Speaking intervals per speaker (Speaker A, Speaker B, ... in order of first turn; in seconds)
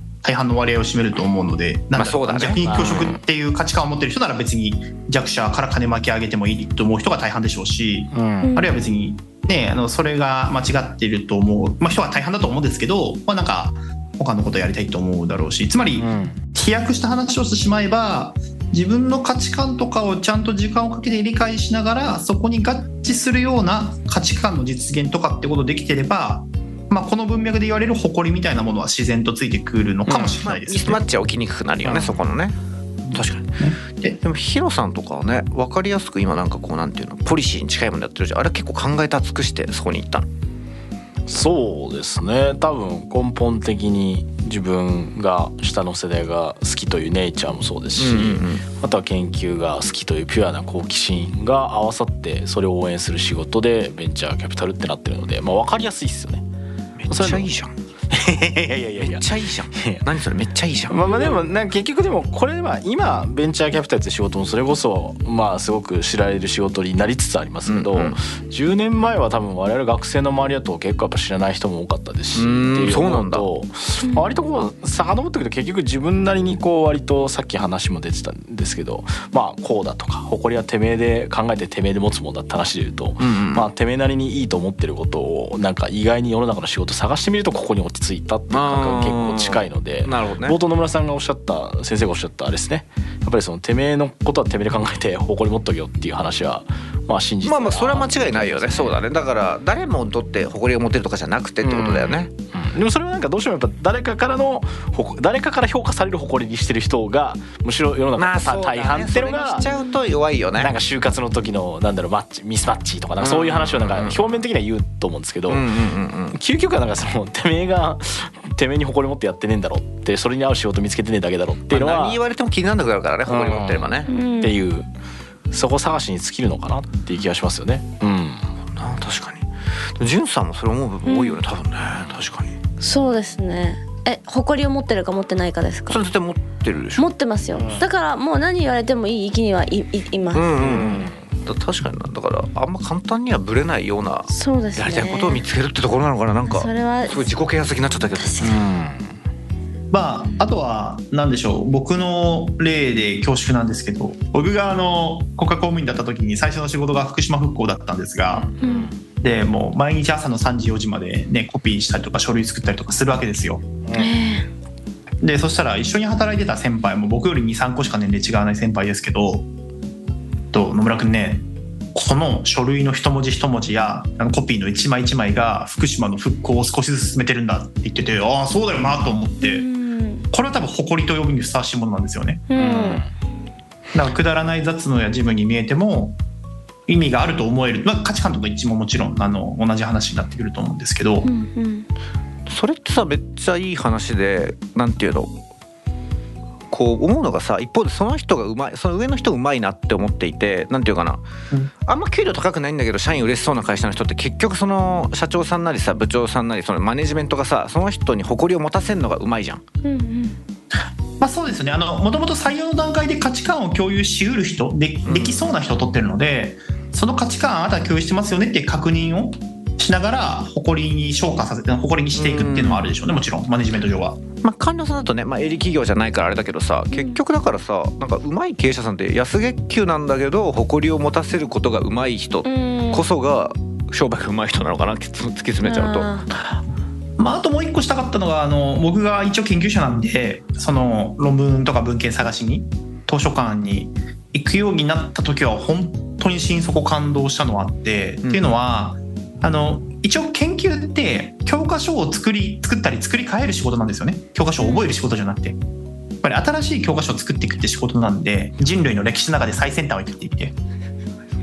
Speaker A: 0.2-31.0, 33.6-34.2, 149.9-158.5, 159.2-163.6, 165.2-169.5, 170.5-179.7, 180.3-182.4, 183.9-186.2, 186.9-191.3, 211.2-224.2, 237.2-255.6, 256.2-260.5
Speaker B: 1.9-3.1, 30.1-32.5, 33.1-33.6, 34.2-40.3, 48.0-48.6, 57.0-57.7, 59.0-61.3, 67.7-68.2, 72.3-73.5, 83.2-83.7, 88.5-90.6, 97.4-102.3, 108.2-110.7, 113.2-114.4, 115.5-116.4, 121.7-124.1, 128.6-132.6, 135.9-137.1, 140.3-148.6, 192.5-195.3, 196.7-201.2, 201.8-209.6, 215.1-215.5, 222.2-222.9, 224.4-236.1, 248.2-248.5
Speaker C: 2.6-3.2, 8.1-8.5, 16.0-16.4, 31.8-32.2, 41.3-56.4, 57.1-57.5, 58.1-60.0, 60.9-99.0, 101.6-109.7, 110.6-115.6, 116.3-122.2, 123.2-124.9, 125.5-128.5, 137.5-137.8, 140.6-141.2, 148.4-149.1, 158.4-159.0, 163.8-164.1, 182.5-183.1
Speaker D: 8.4-8.7, 124.1-124.5, 131.0-131.4, 132.8-136.0, 136.9-140.5, 144.3-145.4, 146.4-147.3, 148.1-148.5, 158.6-158.9, 163.9-164.5, 179.4-180.2, 182.5-183.0, 191.2-191.9, 209.8-210.4, 226.9-227.2, 232.4-233.0, 235.6-236.3